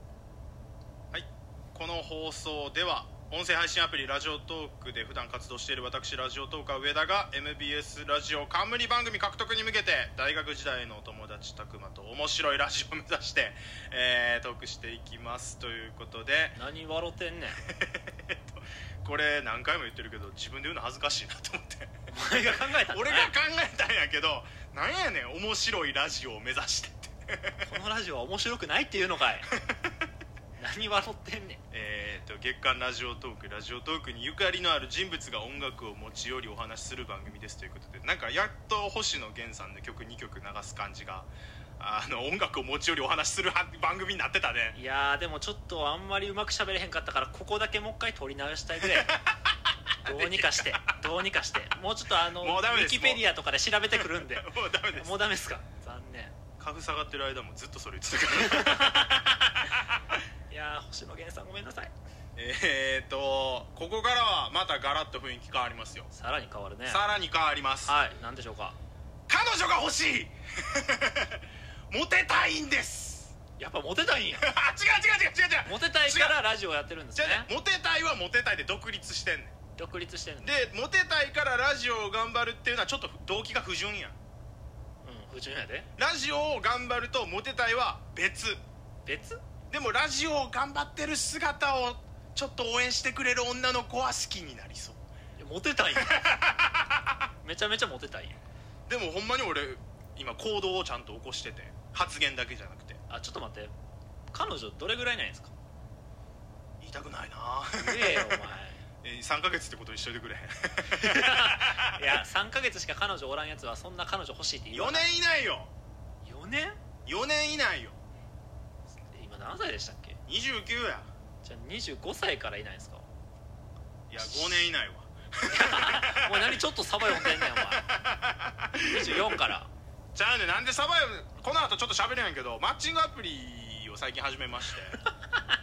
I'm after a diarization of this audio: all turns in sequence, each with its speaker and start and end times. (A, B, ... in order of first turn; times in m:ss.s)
0:01.1-0:16.6 A
0:16.6-0:17.6 B
0:17.7-0:27.7 A
0:22.1-0:23.3 B
0:27.6-0:29.5 B
0:30.6-0:31.6 B
0:31.7-0:44.8 A
0:44.7-0:49.2 B
0:48.8-0:49.5 A
0:50.0-0:50.9 A
0:50.0-0:56.4 B
0:52.4-0:53.2 A
0:53.9-0:55.3 A
0:56.6-0:59.3 A
0:58.2-0:59.8 B
1:00.5-1:01.9 B
1:02.4-1:06.1 A
1:06.1-1:07.0 B
1:06.9-1:08.0 A
1:07.8-1:08.8 B
1:09.3-1:13.3 A
1:13.6-1:14.5 B
1:14.4-1:16.4 A
1:15.6-1:17.5 B
1:17.2-1:19.6 A
1:19.8-1:20.5 B
1:20.4-1:24.2 A
1:25.0-1:25.9 B
1:26.0-1:28.6 A
1:29.0-1:29.4 B
1:29.7-1:35.0 A
1:35.4-1:36.4 B
1:35.9-1:37.0 A
1:37.4-1:38.4 B
1:38.9-1:43.0 A
1:43.1-1:43.7 B
1:44.3-1:45.5 B
1:46.8-1:52.2 A
1:47.8-1:48.8 B
1:50.9-1:55.1 B
1:54.7-1:55.7 A
1:56.2-1:56.8 B
1:57.1-1:58.0 A
1:58.9-2:00.2 B
2:00.3-2:01.1 A
2:01.4-2:03.1 B
2:04.1-2:09.4 A
2:04.2-2:04.7 B
2:05.5-2:07.9 B
2:08.8-2:09.7 B
2:10.1-2:15.0 A